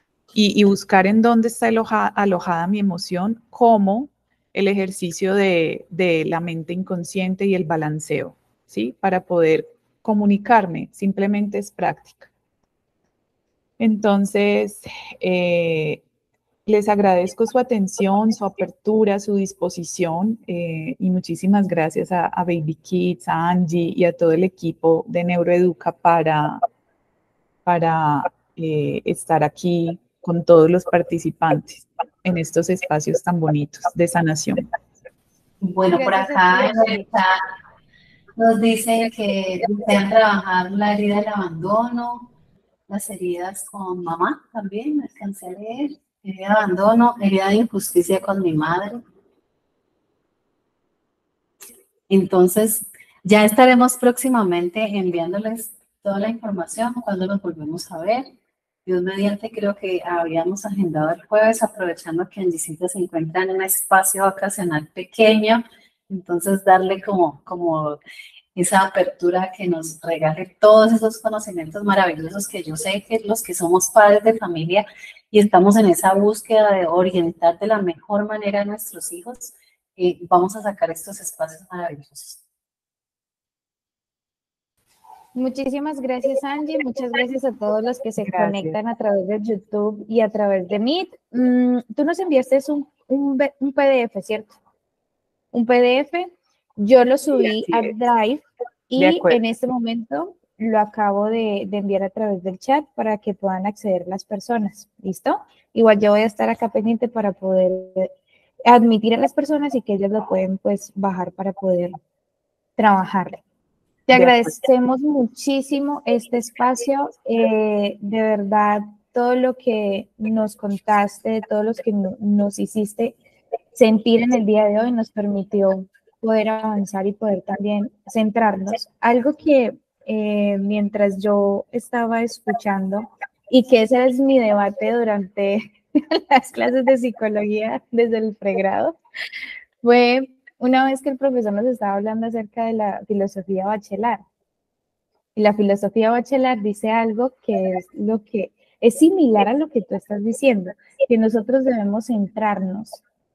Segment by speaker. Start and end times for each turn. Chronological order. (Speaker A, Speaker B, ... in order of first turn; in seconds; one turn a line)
Speaker A: 0.3-12.3
Speaker A: 13.8-16.0
Speaker A: 16.7-26.6
Speaker A: 27.6-34.6
Speaker B: 35.6-37.4
Speaker C: 35.9-37.1
Speaker B: 38.4-42.3
Speaker B: 42.9-49.0
Speaker B: 52.1-58.3
Speaker B: 58.9-68.0
Speaker B: 68.5-82.4
Speaker C: 85.3-94.6
Speaker A: 88.2-88.8
Speaker C: 95.5-108.1
Speaker A: 97.7-97.9
Speaker A: 99.0-99.4
Speaker C: 108.7-112.0
Speaker C: 112.8-113.4
Speaker C: 114.1-123.2
Speaker C: 123.8-139.0
Speaker C: 139.8-144.2
Speaker C: 145.3-153.0